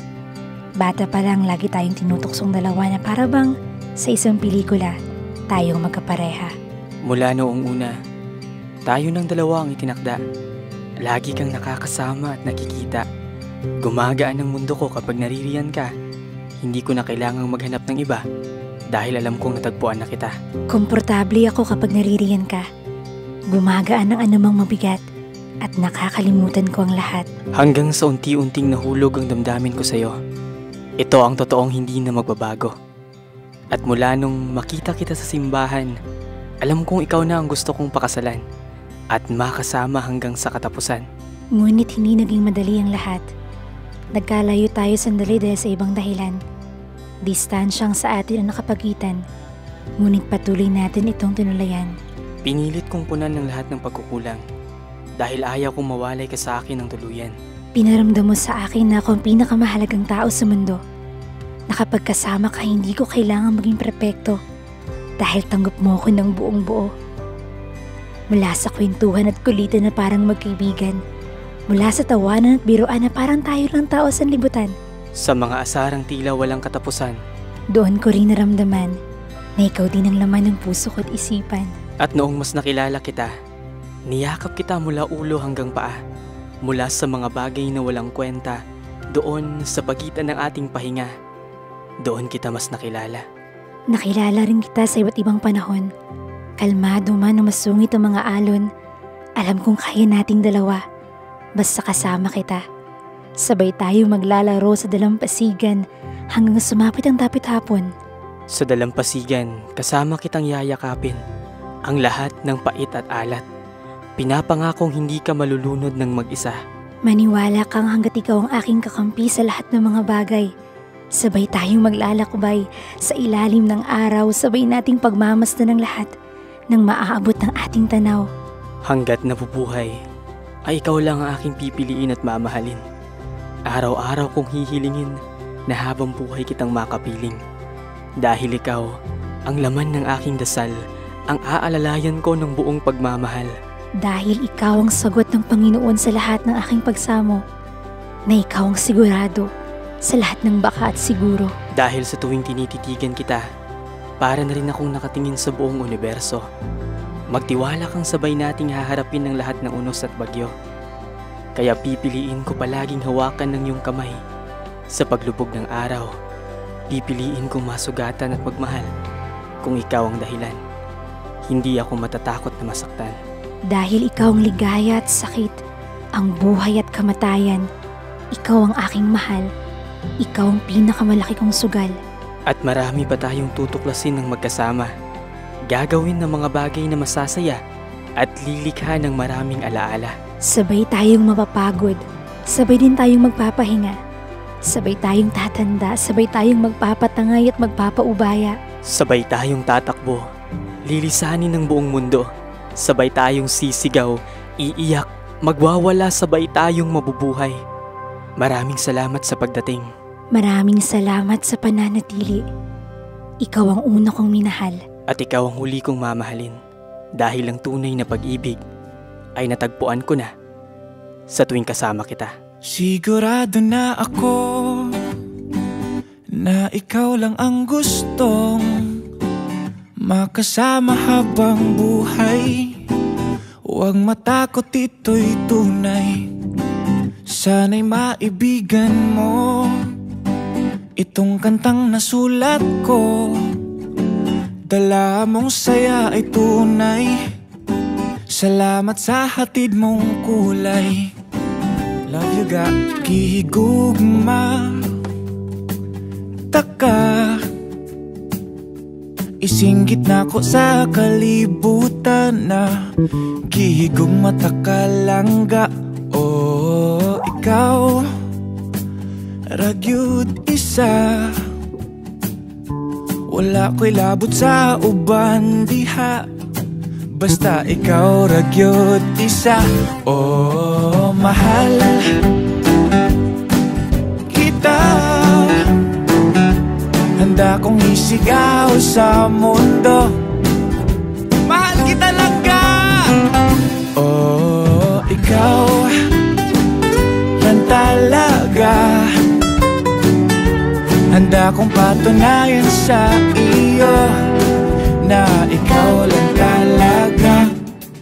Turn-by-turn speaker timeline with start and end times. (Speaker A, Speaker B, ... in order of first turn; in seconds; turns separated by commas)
Speaker A: 0.8-5.0, Speaker A: 5.5-6.5, Speaker B: 7.0-8.0, Speaker B: 8.8-10.2, Speaker B: 11.0-13.0, Speaker B: 13.8-15.9, Speaker B: 16.6-18.2, Speaker B: 18.9-20.3, Speaker A: 20.7-22.6, Speaker A: 23.5-25.0, Speaker A: 25.6-27.3, Speaker B: 27.6-30.2, Speaker B: 31.0-32.7, Speaker B: 33.7-35.9, Speaker B: 36.6-38.4, Speaker B: 39.1-41.0, Speaker A: 41.6-43.2, Speaker A: 44.1-46.4, Speaker A: 47.2-49.2, Speaker A: 50.0-51.9, Speaker B: 52.4-54.4, Speaker B: 55.2-57.4, Speaker A: 57.8-60.8, Speaker A: 61.7-64.4, Speaker A: 65.2-66.9, Speaker A: 68.3-71.0, Speaker A: 71.7-74.7, Speaker B: 75.2-77.2, Speaker A: 77.7-79.0, Speaker A: 79.6-81.7, Speaker B: 82.0-83.3, Speaker B: 84.1-86.0, Speaker B: 86.6-88.6, Speaker B: 89.1-91.1, Speaker B: 92.0-93.2, Speaker A: 93.9-95.9, Speaker A: 96.6-98.7, Speaker A: 99.4-100.8, Speaker A: 101.6-102.6, Speaker A: 103.5-105.8, Speaker A: 106.3-107.9, Speaker B: 108.5-111.2, Speaker B: 111.8-113.4, Speaker B: 114.2-116.6, Speaker A: 117.0-120.5, Speaker A: 121.2-126.1, Speaker A: 126.7-128.3, Speaker B: 128.8-129.9, Speaker B: 130.7-132.8, Speaker B: 133.7-135.1, Speaker B: 135.7-137.4, Speaker B: 138.2-138.9, Speaker B: 139.4-140.8, Speaker B: 141.3-143.5, Speaker A: 144.0-147.4, Speaker A: 148.3-149.5, Speaker A: 150.1-151.5, Speaker B: 151.7-153.4, Speaker B: 154.2-156.4, Speaker B: 157.3-160.5, Speaker B: 161.6-164.2, Speaker B: 164.9-166.1, Speaker B: 166.9-168.9, Speaker B: 169.6-170.6, Speaker B: 171.5-173.2, Speaker A: 173.7-175.6, Speaker A: 176.2-177.6, Speaker A: 178.3-179.5, Speaker A: 180.2-181.9, Speaker B: 182.5-184.9, Speaker B: 185.7-187.6, Speaker B: 188.2-190.2, Speaker A: 190.5-194.0, Speaker A: 194.7-198.6, Speaker B: 198.9-200.2, Speaker B: 200.9-202.3, Speaker B: 202.8-207.6, Speaker B: 208.4-209.9, Speaker A: 210.3-212.4, Speaker A: 213.4-214.8, Speaker B: 215.1-216.6, Speaker B: 217.2-218.6, Speaker B: 219.4-220.3, Speaker B: 221.3-222.3, Speaker C: 222.6-225.0, Speaker C: 226.3-229.0, Speaker C: 230.0-232.8, Speaker C: 233.7-236.3, Speaker C: 237.3-239.9, Speaker C: 241.0-243.6, Speaker C: 244.7-247.3, Speaker C: 248.3-251.1, Speaker C: 252.1-254.9, Speaker C: 256.5-257.5, Speaker C: 259.4-262.8, Speaker C: 263.5-268.1, Speaker C: 269.5-271.5, Speaker C: 273.3-276.3, Speaker C: 277.1-282.3, Speaker C: 284.3-285.9, Speaker C: 287.1-290.2, Speaker C: 291.4-293.2, Speaker C: 293.9-296.2, Speaker C: 297.4-299.3, Speaker C: 301.1-307.6